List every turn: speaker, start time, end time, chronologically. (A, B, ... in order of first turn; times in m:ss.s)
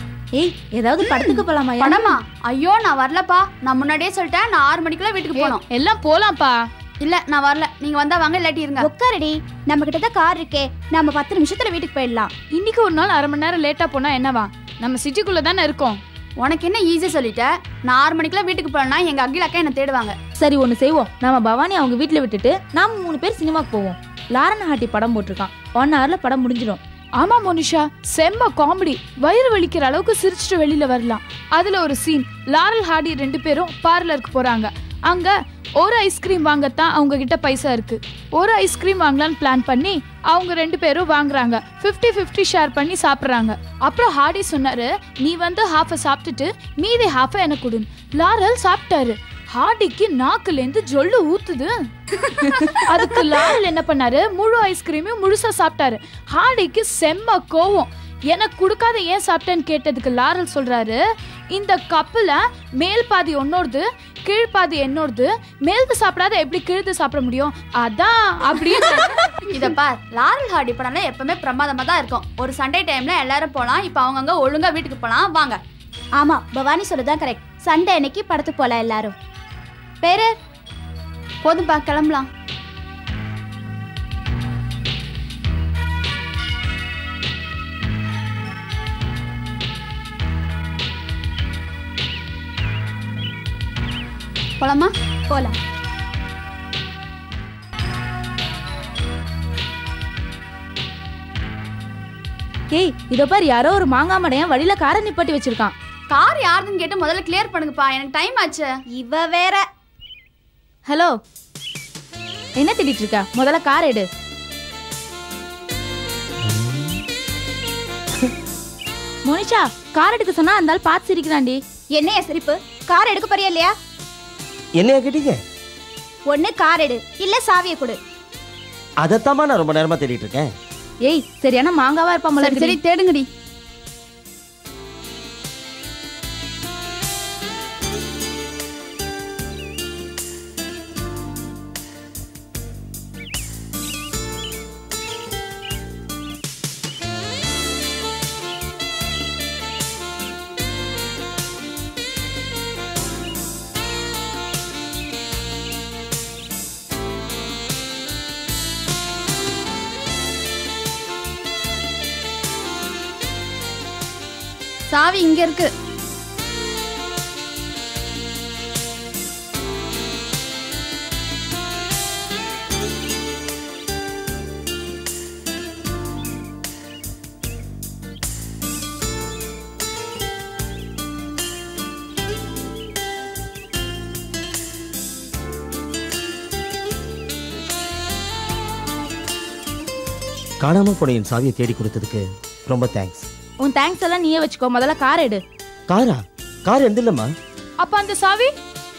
0:00.3-0:02.0 A
0:01.0-0:05.6 B
0:05.3-0:06.5 C
0:07.0-0:08.9 B
0:08.8-0:12.3 D
0:12.5-0:16.0 C
0:16.4-0:20.1 B
0:20.4-0:26.8 A
0:27.2-0:51.7 C
0:52.8-1:01.0 C
1:01.5-1:09.3 C
1:09.5-1:15.6 B
1:16.2-1:19.1 D
1:20.0-1:20.3 D
1:21.4-1:22.3 B
1:34.6-1:34.9 B
1:35.3-1:35.6 D
1:42.7-1:45.7 A
1:46.1-1:48.7 B
1:48.9-1:49.6 D
1:50.9-1:51.1 A
1:52.6-1:54.1 A
1:56.5-1:56.9 E
1:59.2-2:01.6 A
2:02.0-2:03.7 D
2:04.8-2:05.4 E
2:06.3-2:08.0 D
2:09.0-2:10.5 E
2:11.0-2:12.7 A
2:12.4-2:13.3 B
2:44.9-2:45.7 B
3:10.6-3:13.2 E
3:13.6-3:15.4 A
3:15.9-3:17.3 E
3:17.8-3:18.5 C